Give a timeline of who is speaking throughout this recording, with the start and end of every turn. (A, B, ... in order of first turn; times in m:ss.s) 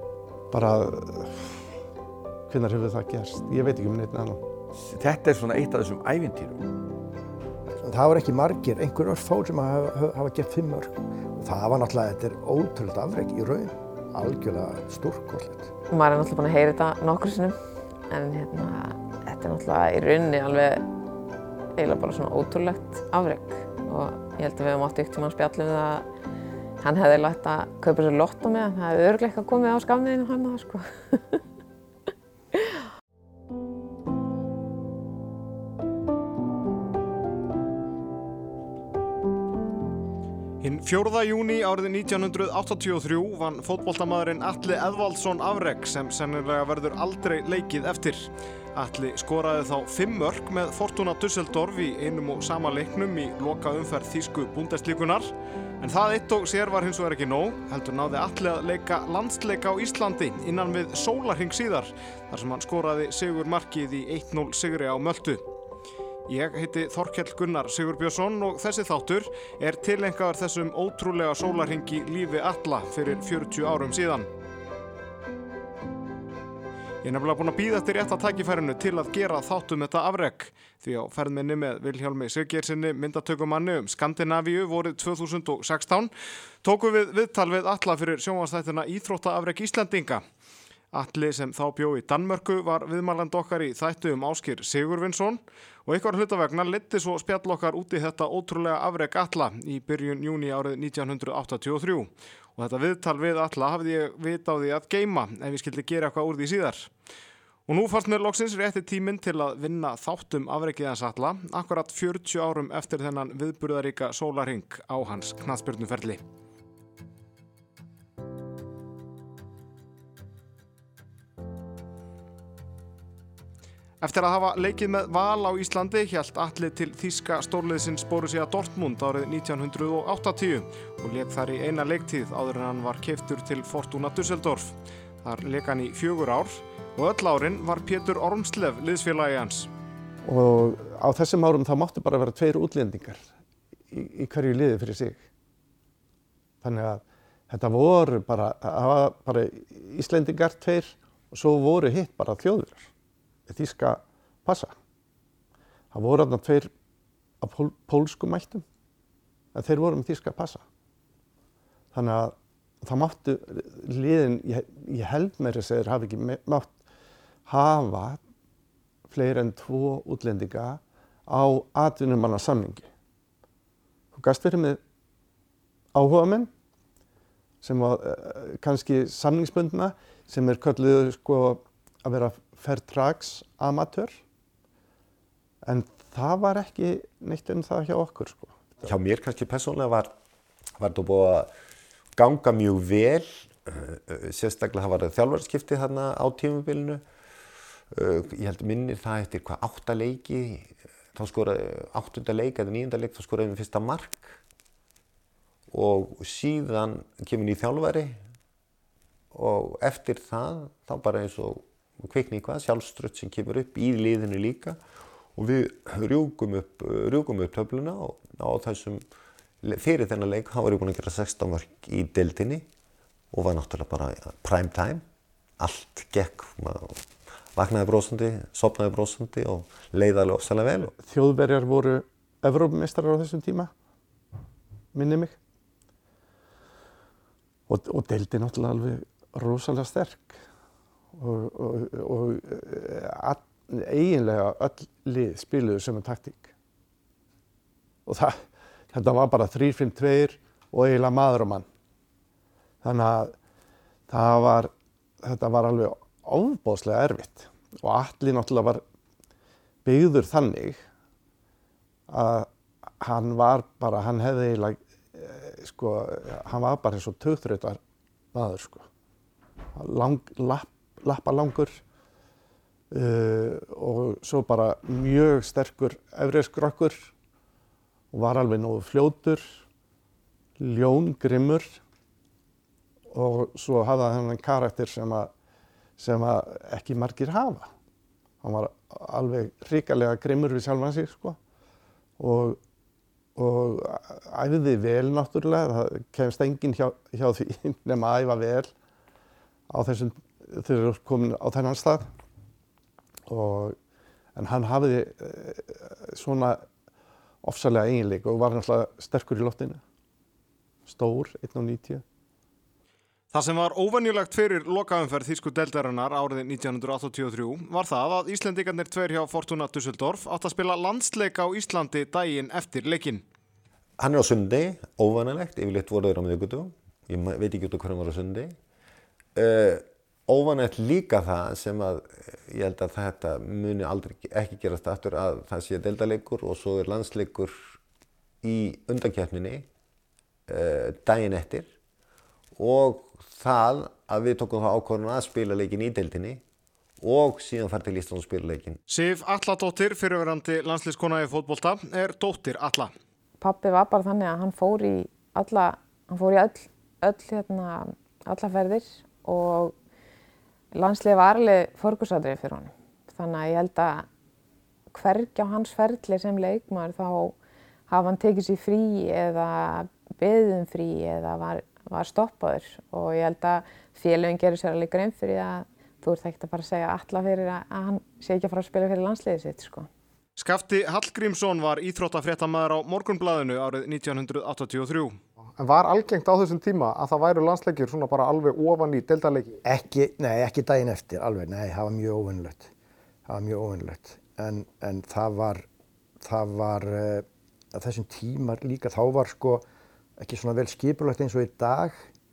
0:00.5-0:01.7 A
0:02.5-0:04.4 A
0:04.7-0:06.6 B
0:07.8-0:15.7 C
0:15.9-0:17.6 D
0:18.1-0:20.9 D
0:21.8-0:26.1 D
0:26.8-0:31.4 D
0:32.5-0:32.8 D
0:40.6-1:05.4 E
1:06.2-1:14.3 E
1:17.0-1:26.1 E
1:26.6-1:30.2 E
1:30.9-1:46.9 E
1:47.7-1:56.2 E
2:04.0-2:19.7 E
2:20.2-2:23.3 A
2:23.9-2:25.2 A
2:26.6-2:32.9 A
2:33.5-2:34.7 A
2:35.9-2:36.7 A
2:37.4-2:38.6 A
2:39.5-2:40.6 A
2:41.9-2:46.8 A
2:47.4-2:48.2 A
2:49.1-2:52.9 A
2:54.1-2:54.8 A
2:55.9-2:56.5 A
2:57.6-3:04.2 A
3:05.6-3:08.8 A
3:08.8-3:10.1 F
3:10.8-3:11.5 F
3:12.1-3:17.0 F
3:17.9-3:24.4 F
3:25.7-3:28.2 F
3:29.3-3:34.8 F
3:35.3-3:39.0 F
3:39.6-3:42.7 F
3:43.3-3:45.0 F
3:45.6-3:50.9 F
3:50.9-3:53.7 A
3:54.9-3:55.4 A
3:57.7-4:00.4 A
4:01.2-4:06.5 A
4:08.0-4:11.6 A
4:12.8-4:13.3 A
4:14.1-4:18.8 A
4:19.8-4:20.8 A
4:22.1-4:22.5 A
4:23.0-4:27.8 A
4:28.3-4:28.9 A
4:29.7-4:31.8 A
4:32.9-4:37.1 A
4:38.1-4:39.6 A
4:40.6-4:41.8 A
4:43.1-4:45.3 A
4:46.0-4:47.7 A
4:48.4-4:51.4 A
4:52.2-4:52.6 A
4:53.4-4:58.7 A
4:59.7-5:02.1 A
5:03.3-5:03.8 A
5:04.4-5:06.6 A
5:07.4-5:09.8 A
5:10.8-5:12.0 A
5:13.3-5:23.2 E
5:24.0-5:28.5 F
5:29.3-5:37.7 F
5:38.4-5:39.7 F
5:40.5-5:41.7 F
5:42.5-5:46.4 F
5:47.0-5:48.8 F
5:48.9-5:52.9 E
5:53.4-5:59.7 D
6:00.7-6:04.0 D
6:04.9-6:07.3 D
6:07.9-6:19.9 D
6:20.4-6:25.2 E
6:25.6-6:29.6 G
6:29.6-6:32.7 C
6:33.2-6:35.6 C
6:36.2-6:39.6 C
6:40.2-6:42.1 C